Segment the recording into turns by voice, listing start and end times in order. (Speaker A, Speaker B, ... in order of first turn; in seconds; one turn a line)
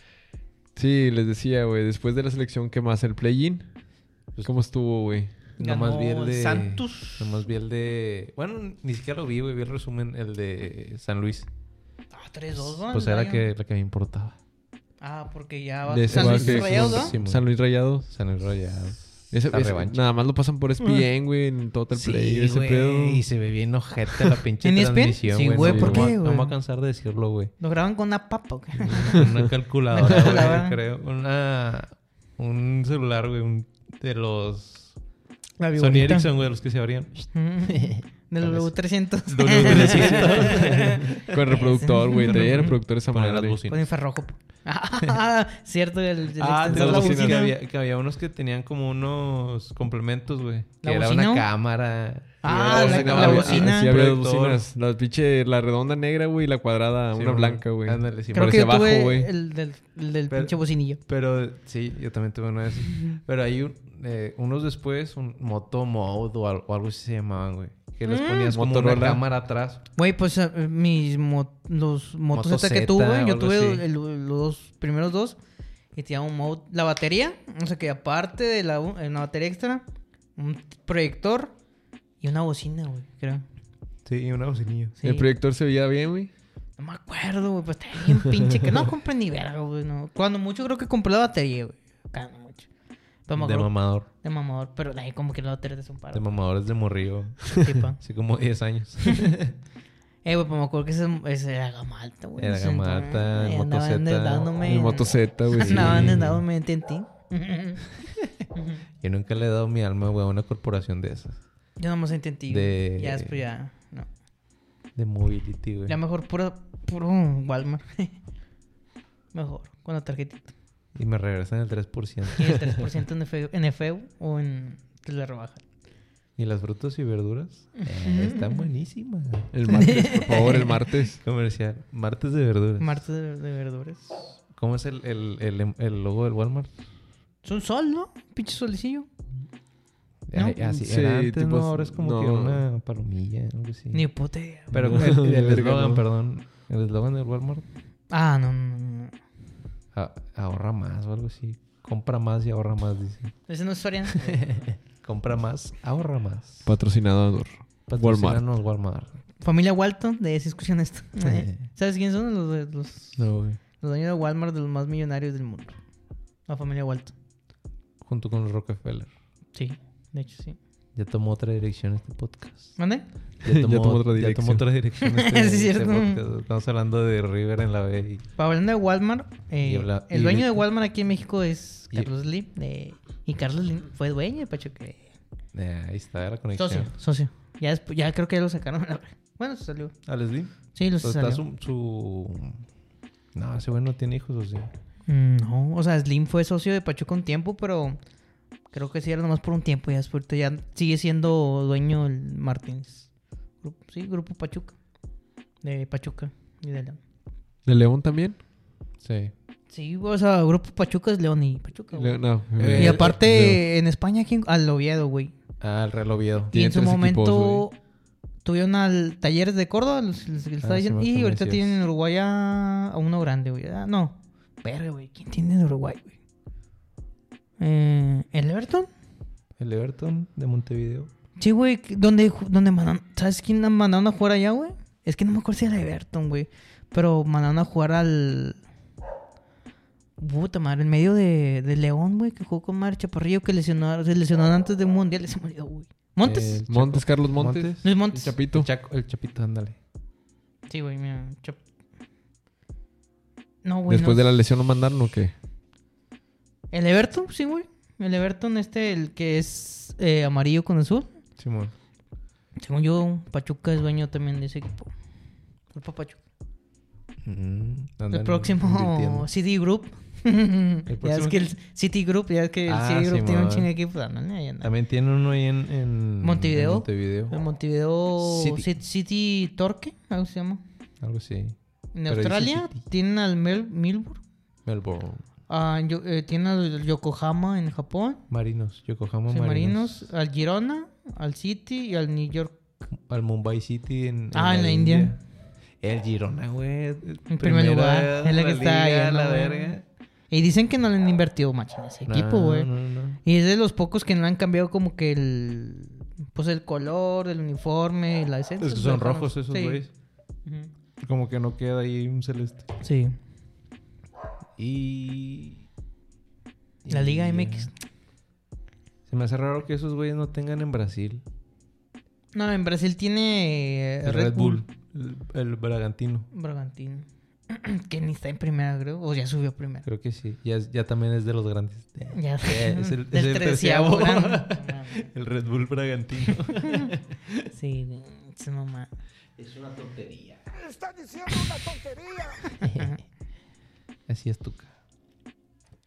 Speaker A: 0.8-3.6
Speaker A: 4.4-5.5
Speaker B: 5.6-11.5
Speaker C: 5.6-7.5
Speaker C: 12.1-13.5
Speaker B: 12.8-14.4
Speaker C: 15.0-17.1
Speaker A: 15.9-18.1
Speaker B: 16.1-17.5
Speaker B: 18.1-20.0
Speaker A: 19.3-23.2
Speaker B: 21.9-27.5
Speaker C: 24.6-26.5
Speaker A: 25.5-26.1
Speaker C: 27.6-30.8
Speaker B: 28.7-35.0
Speaker C: 35.6-36.3
Speaker B: 35.8-38.7
Speaker C: 37.3-42.8
Speaker B: 39.2-41.5
Speaker A: 39.6-43.6
Speaker B: 42.1-43.9
Speaker C: 43.7-47.5
Speaker B: 46.4-54.6
Speaker A: 46.7-47.5
Speaker C: 50.8-51.5
Speaker C: 52.4-53.9
Speaker A: 52.4-59.3
Speaker B: 57.1-58.6
Speaker C: 58.3-61.0
Speaker B: 60.3-69.8
Speaker C: 68.0-68.5
Speaker A: 68.4-69.2
Speaker C: 70.0-75.4
Speaker B: 72.3-73.9
Speaker C: 75.9-79.8
Speaker C: 80.4-81.5
Speaker C: 82.2-83.4
Speaker B: 84.0-85.0
Speaker C: 85.0-85.3
Speaker A: 85.0-86.3
Speaker C: 86.8-92.7
Speaker C: 93.2-96.2
Speaker B: 93.4-94.1
Speaker B: 96.1-99.5
Speaker C: 97.5-98.0
Speaker C: 99.0-99.3
Speaker C: 100.2-107.8
Speaker B: 102.4-104.6
Speaker A: 104.6-106.2
Speaker B: 105.6-106.4
Speaker C: 108.5-108.8
Speaker B: 109.0-111.4
Speaker C: 111.8-114.1
Speaker B: 112.5-113.4
Speaker B: 114.9-116.0
Speaker C: 115.9-118.2
Speaker C: 119.3-120.5
Speaker B: 120.9-122.8
Speaker C: 122.3-125.6
Speaker B: 126.4-133.1
Speaker C: 127.8-128.7
Speaker A: 129.5-131.2
Speaker C: 129.7-130.7
Speaker C: 132.8-134.2
Speaker B: 134.5-136.7
Speaker C: 137.4-139.1
Speaker B: 140.3-144.0
Speaker C: 140.3-140.8
Speaker A: 140.8-142.6
Speaker C: 143.9-145.0
Speaker B: 144.7-147.6
Speaker A: 144.7-146.0
Speaker C: 148.1-149.1
Speaker B: 149.9-153.3
Speaker C: 153.5-154.4
Speaker B: 154.1-156.7
Speaker A: 156.6-158.4
Speaker B: 157.9-159.1
Speaker C: 159.4-165.8
Speaker B: 161.2-161.6
Speaker B: 163.2-163.6
Speaker C: 166.4-167.1
Speaker B: 168.0-169.1
Speaker C: 169.5-170.6
Speaker B: 170.9-172.8
Speaker C: 172.8-173.1
Speaker B: 173.4-178.2
Speaker A: 173.4-174.6
Speaker C: 175.0-176.2
Speaker C: 178.4-185.1
Speaker B: 179.6-180.7
Speaker B: 185.5-186.9
Speaker C: 186.6-189.9
Speaker B: 190.0-192.7
Speaker C: 190.7-191.4
Speaker B: 193.3-194.7
Speaker C: 195.1-198.0
Speaker C: 198.7-203.1
Speaker C: 203.6-204.8
Speaker C: 205.6-207.0
Speaker A: 207.7-208.4
Speaker B: 209.0-209.3
Speaker C: 209.7-215.3
Speaker A: 211.9-213.6
Speaker B: 212.6-213.5
Speaker B: 215.6-216.6
Speaker C: 216.5-217.8
Speaker A: 216.5-217.6
Speaker C: 218.4-226.2
Speaker B: 220.6-221.8
Speaker C: 227.6-228.9
Speaker B: 229.6-231.1
Speaker C: 231.4-238.6
Speaker C: 240.2-246.6
Speaker B: 246.2-247.9
Speaker A: 246.7-248.7
Speaker C: 247.8-248.3
Speaker B: 248.4-249.8
Speaker C: 250.7-251.6
Speaker C: 253.6-254.2
Speaker A: 253.9-255.3
Speaker C: 256.7-261.1
Speaker B: 261.4-261.7
Speaker C: 262.6-264.9
Speaker C: 265.7-266.2
Speaker B: 267.2-269.3
Speaker C: 268.1-274.7
Speaker B: 270.9-271.5
Speaker B: 272.6-273.7
Speaker B: 274.6-277.4
Speaker C: 276.2-280.6
Speaker B: 278.2-278.7
Speaker B: 281.0-281.6
Speaker C: 281.9-284.2
Speaker B: 282.1-282.8
Speaker B: 284.6-285.2
Speaker C: 285.5-288.2
Speaker B: 288.3-290.1
Speaker C: 289.3-292.6
Speaker B: 292.9-295.2
Speaker C: 294.3-295.1
Speaker B: 295.8-299.8
Speaker C: 297.3-299.8
Speaker C: 300.3-302.7
Speaker B: 302.1-303.2
Speaker C: 303.2-309.8
Speaker B: 308.6-309.9
Speaker C: 310.4-310.7
Speaker B: 311.0-312.7
Speaker C: 312.8-313.1
Speaker B: 314.6-315.7
Speaker B: 316.8-317.7
Speaker C: 316.9-317.7
Speaker B: 319.1-321.2
Speaker C: 322.3-324.6
Speaker B: 324.0-326.3
Speaker C: 326.3-329.9
Speaker B: 329.9-337.5
Speaker C: 332.1-335.1
Speaker C: 336.3-336.9
Speaker C: 337.5-338.9
Speaker B: 339.4-340.9
Speaker C: 341.3-343.0
Speaker B: 342.6-342.9
Speaker B: 344.1-344.7